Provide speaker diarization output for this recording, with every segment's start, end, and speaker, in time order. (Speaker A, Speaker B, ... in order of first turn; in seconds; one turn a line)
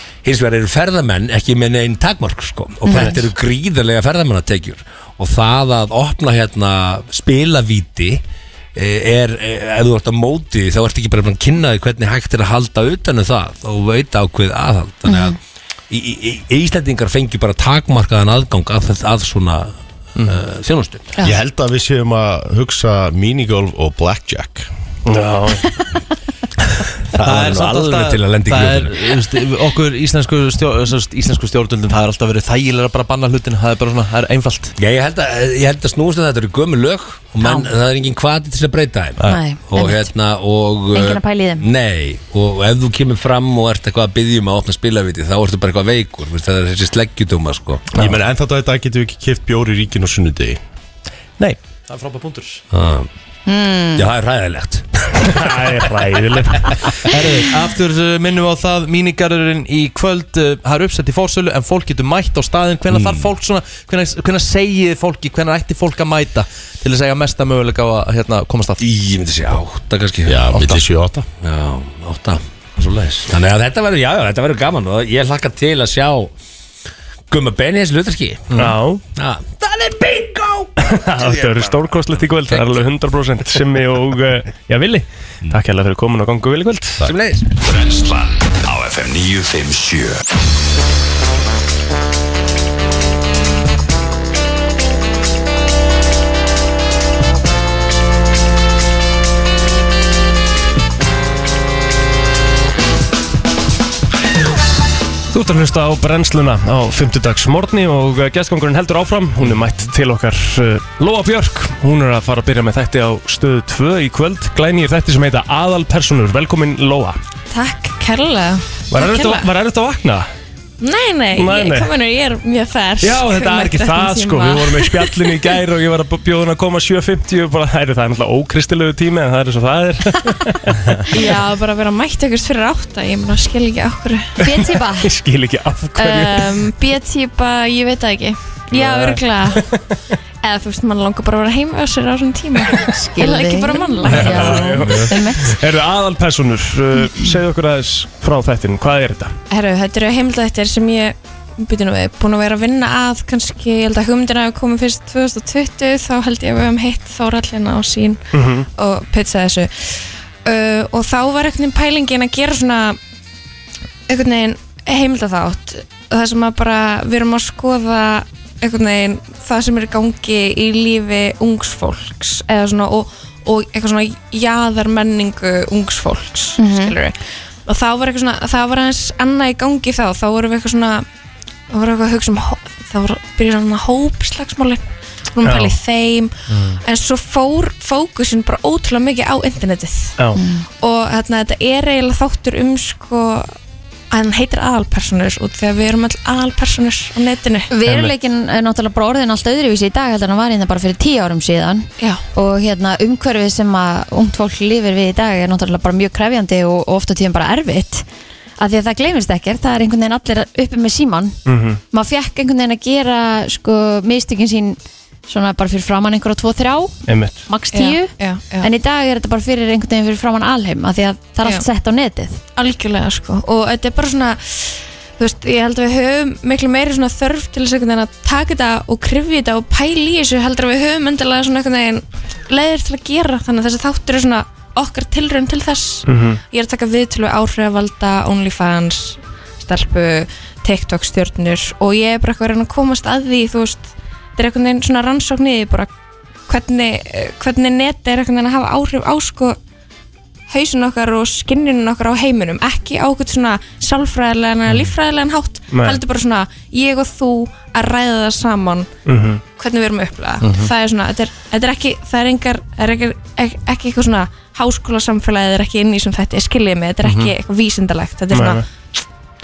Speaker A: 0.2-8.2
Speaker B: 2.8-3.2
Speaker A: 8.7-15.4
Speaker B: 15.1-15.3
Speaker A: 15.9-21.1
Speaker C: 20.1-20.4
Speaker D: 21.2-24.7
Speaker E: 25.1-25.7
Speaker A: 27.1-29.1
Speaker C: 27.2-34.7
Speaker A: 34.8-47.9
Speaker B: 37.4-37.7
Speaker B: 39.2-40.1
Speaker B: 40.9-41.6
Speaker D: 48.0-50.6
Speaker C: 51.4-52.6
Speaker A: 52.7-53.1
Speaker B: 53.5-54.0
Speaker A: 53.9-55.6
Speaker E: 55.3-56.7
Speaker C: 57.0-68.8
Speaker A: 62.9-63.3
Speaker A: 68.8-70.8
Speaker D: 70.3-71.2
Speaker A: 71.4-76.3
Speaker A: 77.3-78.5
Speaker E: 78.5-79.0
Speaker A: 79.1-82.8
Speaker E: 80.8-87.0
Speaker A: 87.0-87.5
Speaker F: 87.6-90.2
Speaker E: 105.3-117.2
Speaker G: 117.5-119.5
Speaker E: 118.9-120.3
Speaker G: 120.8-125.5
Speaker E: 121.3-121.9
Speaker E: 123.0-131.0
Speaker G: 131.1-134.3
Speaker B: 134.4-135.1
Speaker E: 134.4-136.6
Speaker G: 135.9-139.6
Speaker E: 138.7-139.8
Speaker G: 140.4-144.7
Speaker B: 142.8-145.6
Speaker E: 144.1-149.3
Speaker G: 149.5-158.2
Speaker E: 158.3-158.7
Speaker G: 158.8-163.0
Speaker G: 164.1-181.0
Speaker B: 176.6-176.9
Speaker G: 181.7-184.8
Speaker G: 185.3-186.3
Speaker E: 185.4-185.8
Speaker C: 186.5-186.8
Speaker G: 186.8-190.1
Speaker B: 190.3-190.7
Speaker G: 190.8-193.5
Speaker G: 194.1-197.7
Speaker B: 197.7-208.0
Speaker E: 197.8-198.1
Speaker B: 208.6-211.4
Speaker E: 211.4-211.8
Speaker B: 211.9-216.9
Speaker E: 217.1-217.4
Speaker B: 217.5-222.4
Speaker G: 217.7-218.7
Speaker G: 222.6-245.9
Speaker E: 236.1-236.4
Speaker G: 246.5-249.6
Speaker G: 250.5-258.9
Speaker E: 255.7-256.0
Speaker E: 259.1-259.4
Speaker G: 259.6-268.6
Speaker C: 260.4-260.7
Speaker C: 267.0-267.3
Speaker E: 268.3-268.6